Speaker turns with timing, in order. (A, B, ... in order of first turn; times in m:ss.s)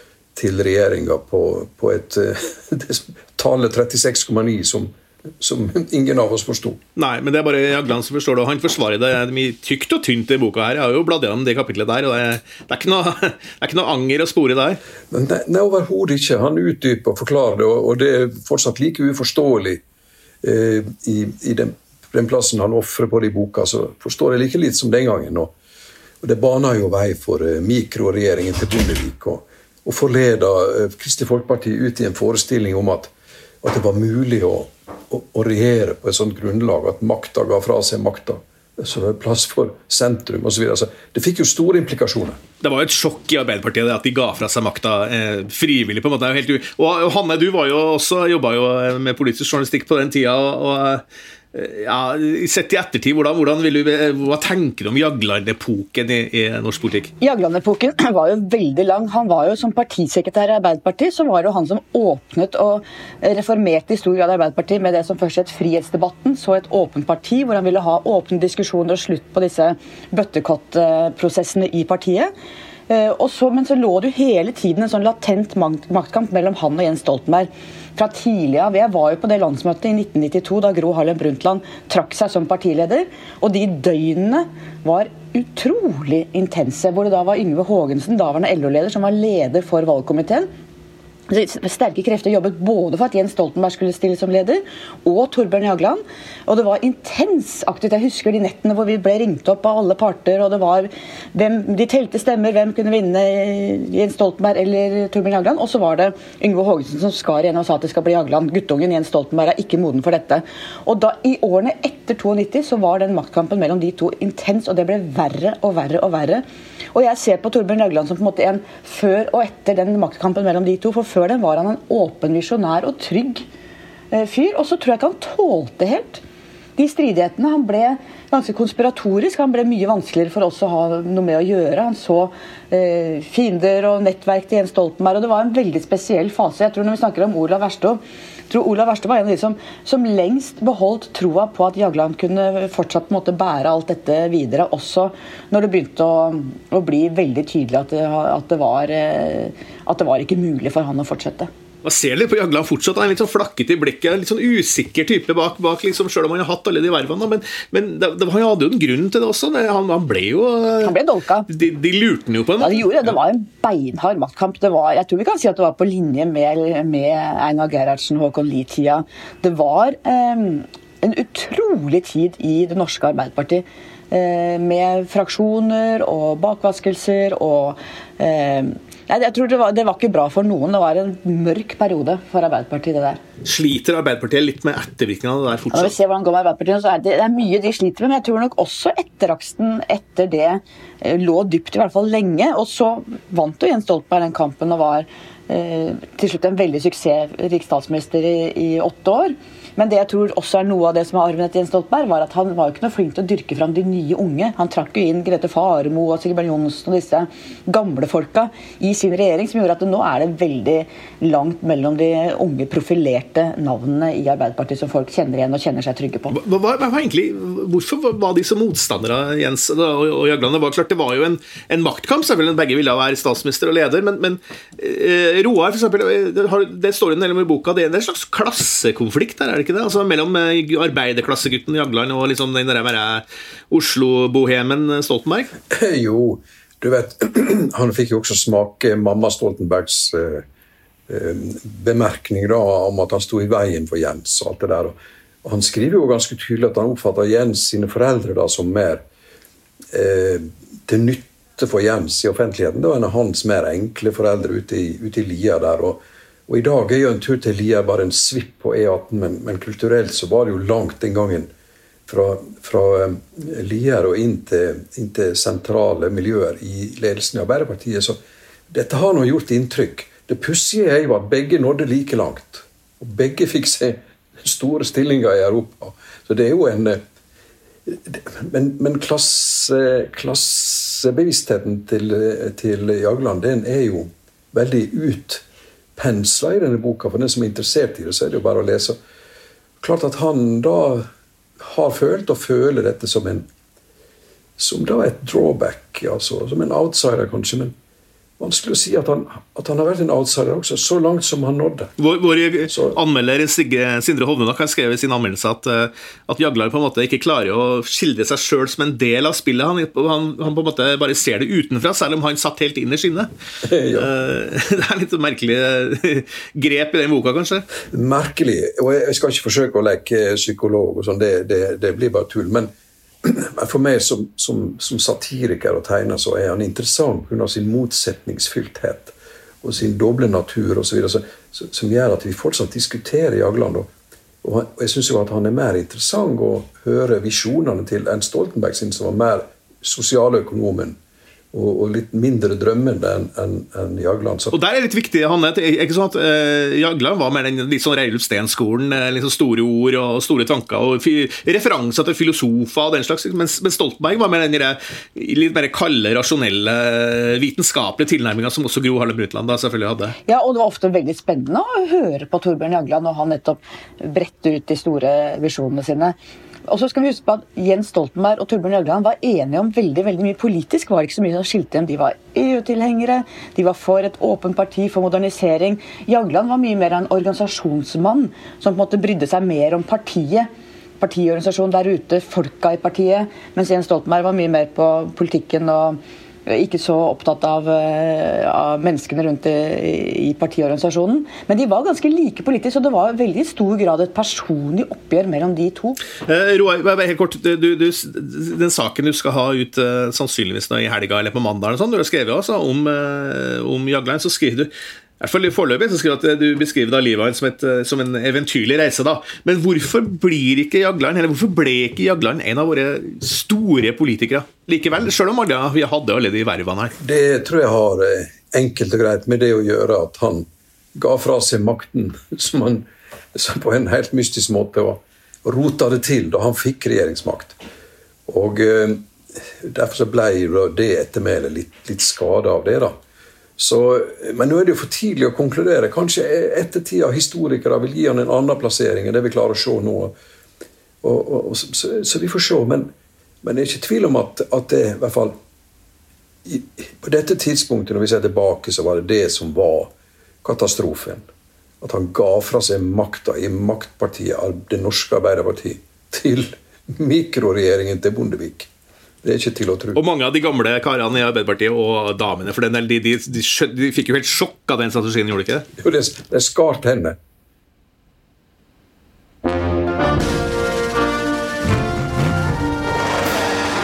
0:00.4-0:06.8 A
0:07.0-0:14.8 B
0:15.1-0:19.8 A
0:20.4-0:25.5 A
0:26.2-0:33.1 A
0:33.6-0:42.4 A
0:42.6-0:57.1 B
0:57.2-1:12.3 C
1:12.9-1:30.5 C
1:31.3-2:03.4 C
2:04.1-2:06.2 C
2:06.8-2:31.5 C
2:31.8-2:41.0 B
2:40.8-2:41.5 C
2:41.5-2:43.2 B
2:42.6-3:03.2 C
3:03.4-3:05.9 B
3:05.7-3:36.3 C
3:36.3-3:55.5 B
3:55.7-4:00.4 A
4:01.1-4:09.0 A
4:09.9-4:21.5 A
4:22.1-4:28.2 A
4:28.7-4:37.0 A
4:37.8-4:45.4 A
4:46.0-4:49.0 A
4:49.8-4:51.0 A
4:51.6-4:53.5 A
4:54.6-4:57.7 A
4:58.4-5:01.9 A
5:02.0-5:13.3 B
5:02.7-5:02.9 A
5:13.6-5:14.1 A
5:13.9-5:17.6 B
5:17.9-5:22.7 A
5:23.2-5:33.9 A
5:34.4-5:41.0 A
5:41.5-5:44.5 A
5:44.5-6:00.2 B
6:00.2-6:06.1 C
6:06.7-6:20.5 C
6:21.0-6:36.0 C
6:36.2-6:56.9 B
6:57.0-7:07.6 A
7:08.3-7:09.1 A
7:09.6-7:12.9 A
7:13.6-7:20.1 A
7:21.0-7:22.9 A
7:23.4-7:25.4 A
7:26.4-7:29.9 A
7:30.4-7:31.2 A
7:31.8-7:38.7 A
7:39.2-7:40.0 A
7:39.9-7:45.7 B
7:45.8-7:47.2 A